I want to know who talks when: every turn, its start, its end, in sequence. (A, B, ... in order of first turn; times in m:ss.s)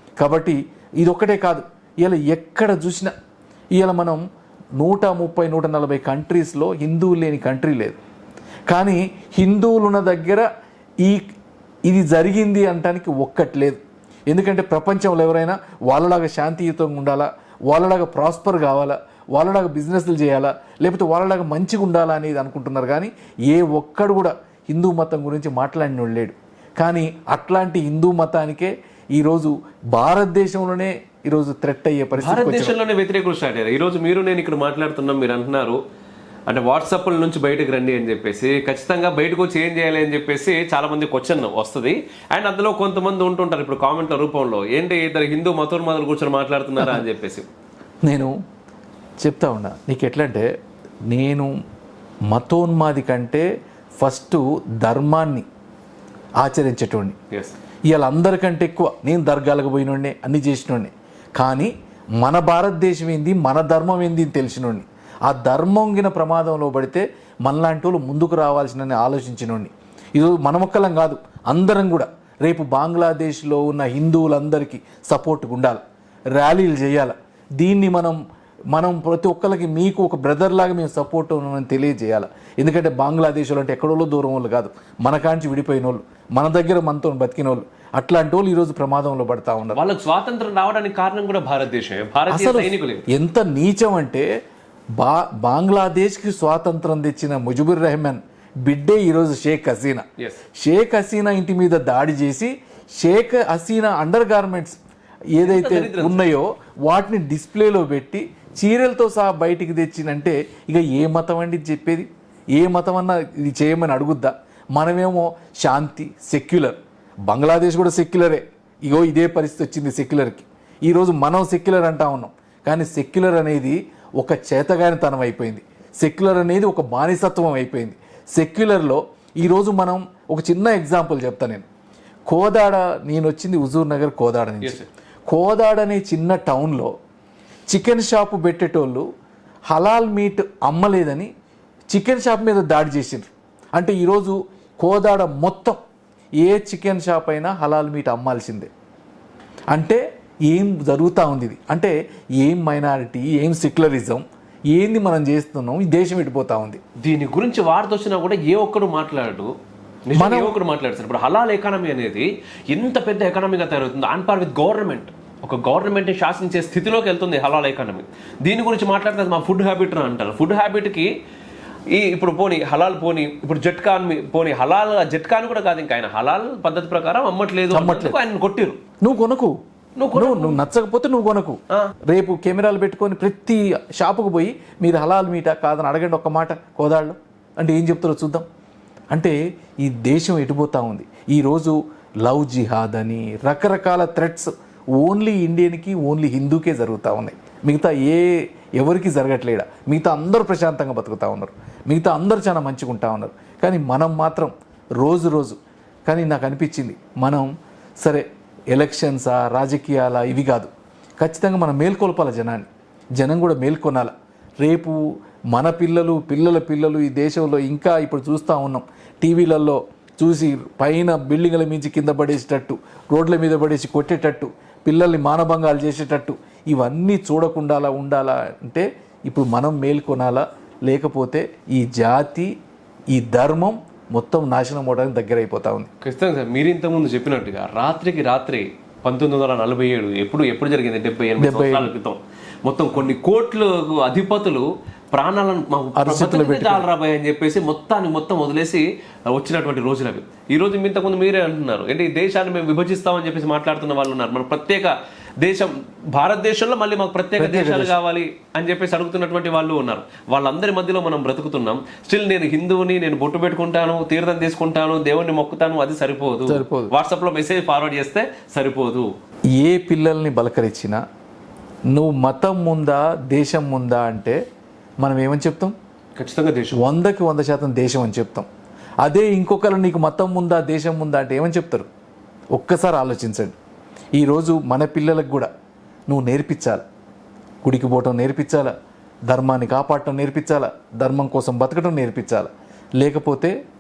0:00.2-0:03.1 A
0:03.8-0:04.2 A
0:04.8-0:08.0 A
0:08.7-0:10.5 A
0:11.0-0:11.3 A
0:11.9-0:32.8 A
0:32.2-0:35.8 B
0:36.5-0:47.5 B
0:48.0-0:48.4 A
0:49.2-0:50.5 A
0:51.1-0:51.6 A
0:52.3-0:53.5 A
0:54.0-0:55.5 A
0:56.4-0:57.2 A
0:57.9-1:15.8 A
1:16.3-1:18.2 A
1:18.7-1:29.8 A
1:29.7-1:33.1 B
1:32.3-1:34.3 A
1:35.0-1:40.0 A
1:40.6-1:44.8 A
1:45.3-2:11.7 A
1:45.4-1:46.3 B
2:12.3-2:16.9 A
2:14.6-2:14.9 B
2:17.7-2:19.1 A
2:19.7-2:21.3 A
2:21.9-2:25.8 A
2:26.4-2:28.7 A
2:29.7-2:36.8 A
2:37.0-2:39.5 B
2:40.1-2:51.1 B
2:40.2-2:40.6 A
2:51.9-2:58.8 B
2:57.7-2:58.2 A
2:59.0-2:59.6 A
3:00.0-3:00.6 B
3:00.2-3:08.5 A
3:09.1-3:27.5 A
3:28.0-3:52.6 A
3:53.1-3:55.9 A
3:56.0-4:29.1 B
4:01.4-4:01.9 A
4:06.0-4:06.9 A
4:17.4-4:17.9 A
4:26.5-4:26.9 A
4:29.6-4:31.0 A
4:31.9-4:34.4 A
4:35.0-4:35.7 A
4:36.2-4:36.8 B
4:36.8-4:38.5 A
4:39.0-4:41.9 A
4:42.5-4:43.6 A
4:44.2-4:45.5 A
4:46.1-4:46.8 A
4:47.6-4:48.7 A
4:49.3-4:53.6 A